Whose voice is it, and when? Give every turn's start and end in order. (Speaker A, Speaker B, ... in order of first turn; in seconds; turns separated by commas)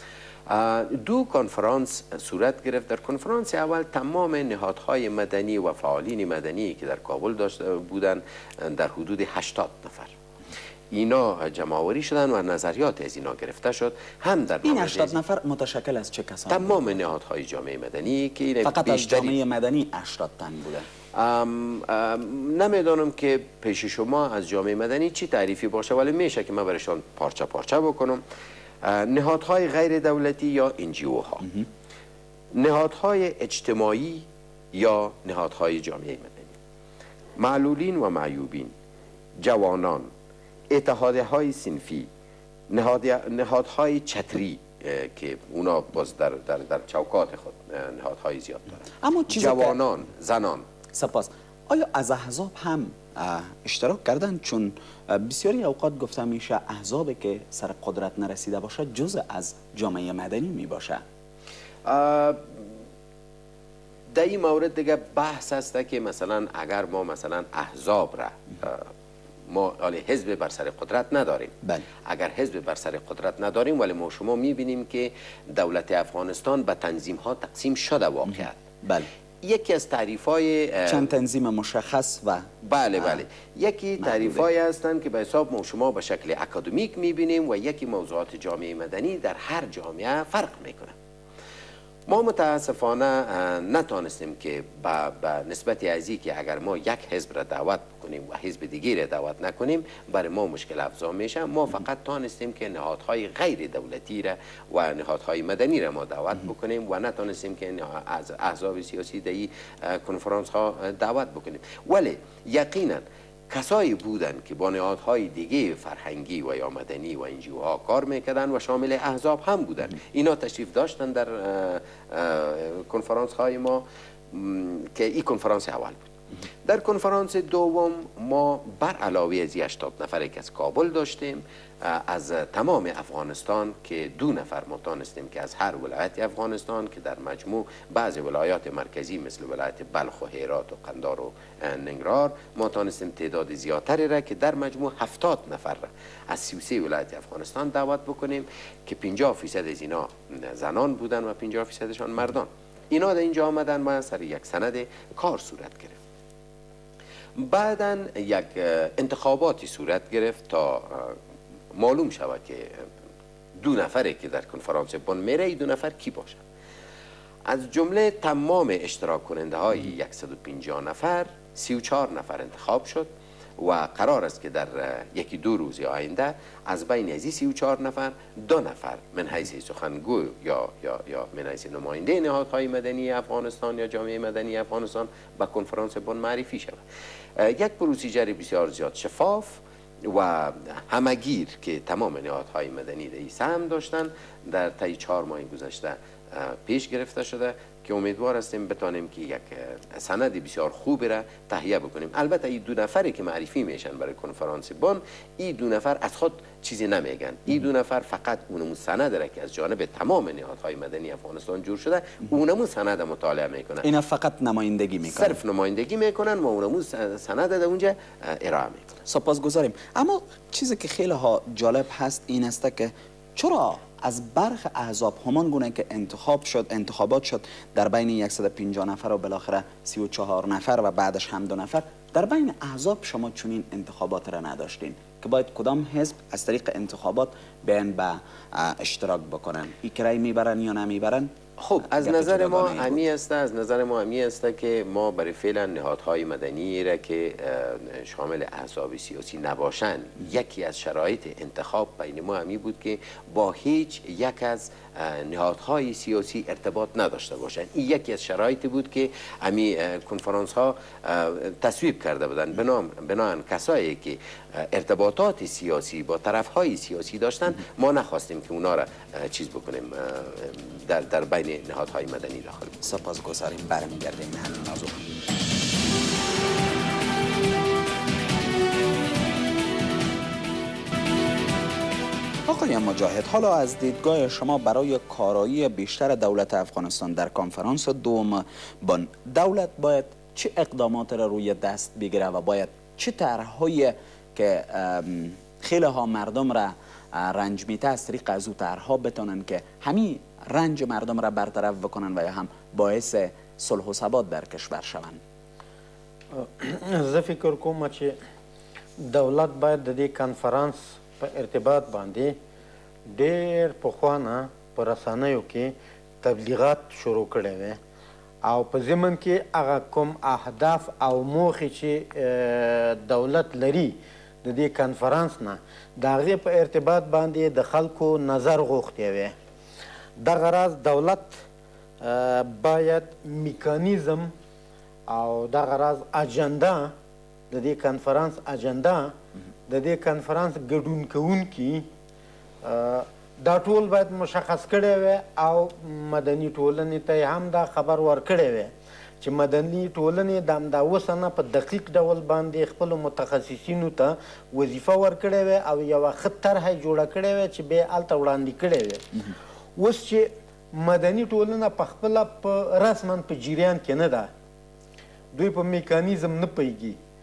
Speaker A: 0.5-10.1, Speaker A: 10.9-15.2, Speaker B: 14.6-16.8, Speaker A: 16.5-19.3, Speaker B: 18.6-20.9, Speaker A: 21.1-28.2, Speaker A: 28.8-31.5, Speaker A: 32.5-36.5, Speaker A: 37.4-38.7, Speaker A: 39.4-40.1, Speaker A: 40.7-42.1, Speaker A: 42.7-50.6, Speaker B: 49.0-49.8, Speaker B: 50.9-61.0, Speaker A: 61.9-62.7, Speaker A: 64.1-68.8, Speaker A: 69.5-71.5, Speaker A: 72.0-78.6, Speaker B: 78.3-79.1, Speaker A: 79.4-81.1, Speaker B: 80.9-83.2, Speaker A: 82.6-90.9, Speaker B: 84.0-84.4, Speaker A: 92.1-126.1, Speaker A: 126.6-156.0, Speaker A: 157.4-161.2, Speaker A: 161.7-162.9, Speaker A: 163.6-166.4, Speaker A: 167.4-186.8, Speaker A: 187.3-213.9, Speaker B: 213.8-215.4, Speaker A: 215.1-219.0, Speaker B: 219.1-241.3, Speaker A: 241.6-272.8, Speaker B: 241.8-243.0, Speaker B: 272.8-275.1, Speaker B: 282.4-305.2, Speaker C: 306.3-308.1, Speaker C: 309.0-312.3, Speaker C: 313.1-317.8, Speaker C: 318.4-329.3, Speaker C: 330.2-331.4, Speaker C: 332.0-334.3, Speaker C: 335.1-336.9, Speaker C: 337.5-339.1, Speaker C: 339.7-341.9, Speaker C: 342.6-359.0, Speaker C: 359.8-364.3, Speaker C: 365.3-367.0